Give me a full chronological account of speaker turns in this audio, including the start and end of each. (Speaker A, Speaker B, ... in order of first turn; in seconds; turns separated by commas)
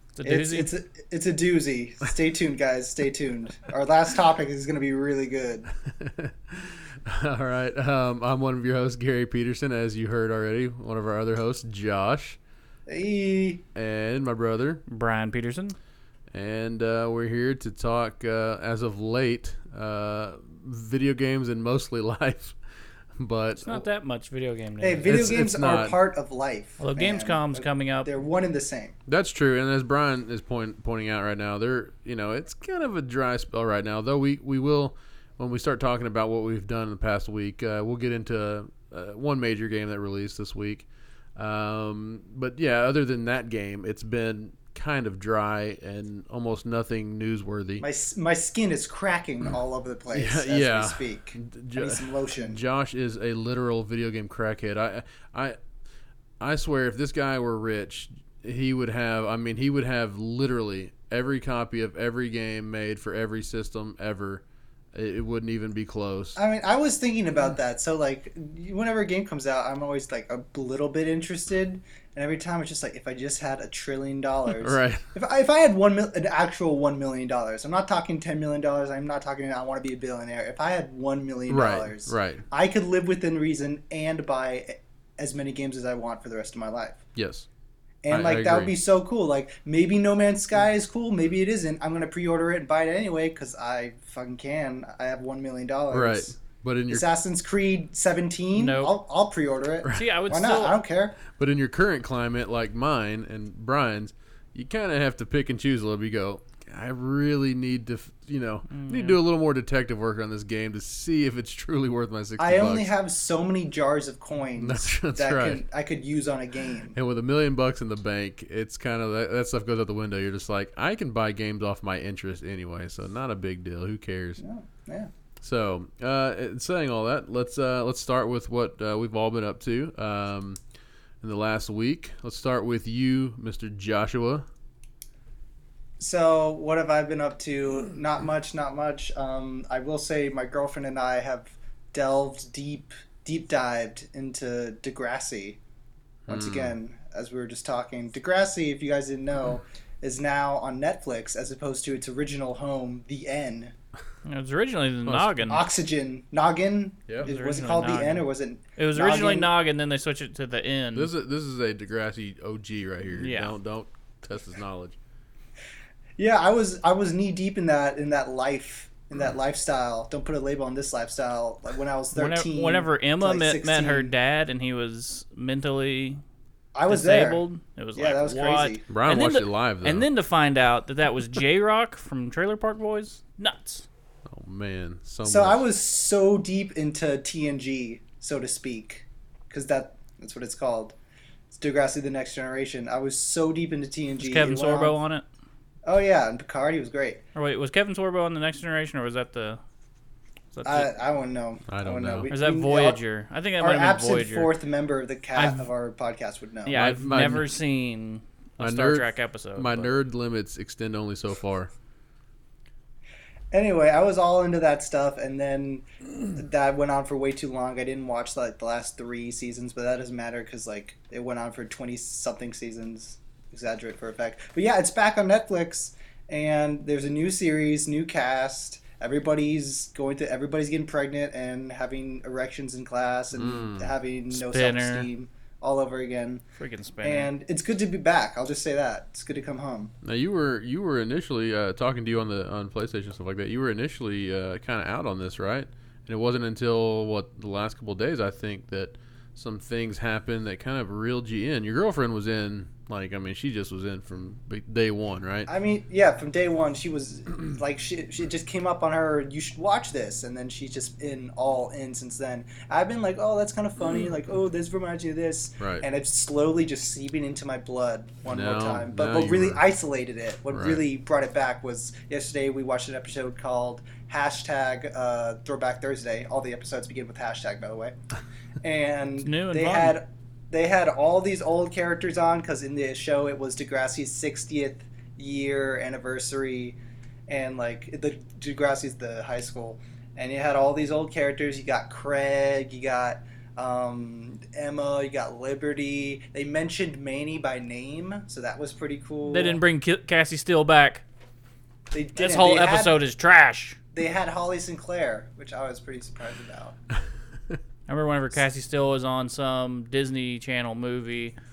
Speaker A: 0.1-0.7, Speaker B: 0.2-5.7, Speaker C: 5.8-12.4, Speaker B: 12.9-13.6, Speaker C: 13.7-14.8, Speaker A: 14.9-15.8, Speaker C: 16.3-22.6, Speaker C: 23.1-23.9, Speaker A: 23.6-25.1, Speaker B: 24.8-28.9, Speaker C: 25.0-26.0, Speaker A: 26.8-28.1, Speaker C: 29.1-47.8, Speaker B: 47.8-52.6, Speaker C: 50.1-55.6, Speaker C: 56.4-64.4, Speaker C: 64.9-66.4, Speaker B: 66.3-87.0, Speaker C: 74.5-75.0, Speaker C: 81.5-82.4, Speaker C: 87.1-87.5, Speaker B: 88.0-101.2, Speaker C: 88.1-88.8, Speaker C: 95.9-97.0, Speaker A: 98.5-99.0, Speaker A: 99.9-100.8, Speaker C: 101.3-112.9, Speaker A: 108.7-109.2, Speaker B: 112.4-117.0, Speaker C: 114.6-115.6, Speaker C: 116.9-124.4, Speaker B: 124.4-125.1, Speaker C: 125.4-130.6, Speaker C: 131.2-134.4, Speaker B: 136.0-145.6, Speaker C: 146.3-146.7, Speaker B: 146.3-153.7, Speaker A: 154.2-155.6, Speaker C: 155.0-155.4, Speaker B: 155.5-159.5, Speaker A: 157.2-161.1, Speaker C: 160.9-165.0, Speaker A: 163.2-163.5, Speaker B: 166.2-174.1, Speaker A: 172.2-176.2, Speaker B: 176.7-177.4, Speaker A: 176.9-183.9, Speaker B: 177.9-178.8, Speaker C: 178.9-180.1, Speaker C: 184.3-185.6, Speaker B: 185.2-190.9, Speaker B: 191.5-194.9, Speaker A: 194.2-195.2, Speaker B: 195.8-197.2, Speaker A: 197.3-199.6, Speaker A: 200.5-200.9, Speaker B: 200.6-203.0, Speaker C: 201.7-202.3, Speaker A: 202.3-204.5, Speaker B: 203.6-206.8, Speaker A: 205.3-205.7, Speaker A: 206.7-209.9, Speaker C: 206.7-207.5, Speaker C: 208.6-211.7, Speaker B: 213.5-236.4, Speaker C: 233.3-233.9, Speaker A: 234.3-235.1, Speaker A: 236.6-237.3, Speaker B: 237.0-239.9, Speaker C: 240.0-255.5, Speaker B: 255.5-277.9, Speaker C: 265.6-265.9, Speaker C: 268.3-269.6, Speaker C: 270.5-270.8, Speaker B: 278.6-299.6, Speaker A: 279.2-280.0, Speaker A: 299.3-301.0, Speaker B: 301.9-303.0, Speaker A: 302.1-303.8, Speaker B: 303.9-306.8, Speaker A: 307.9-311.4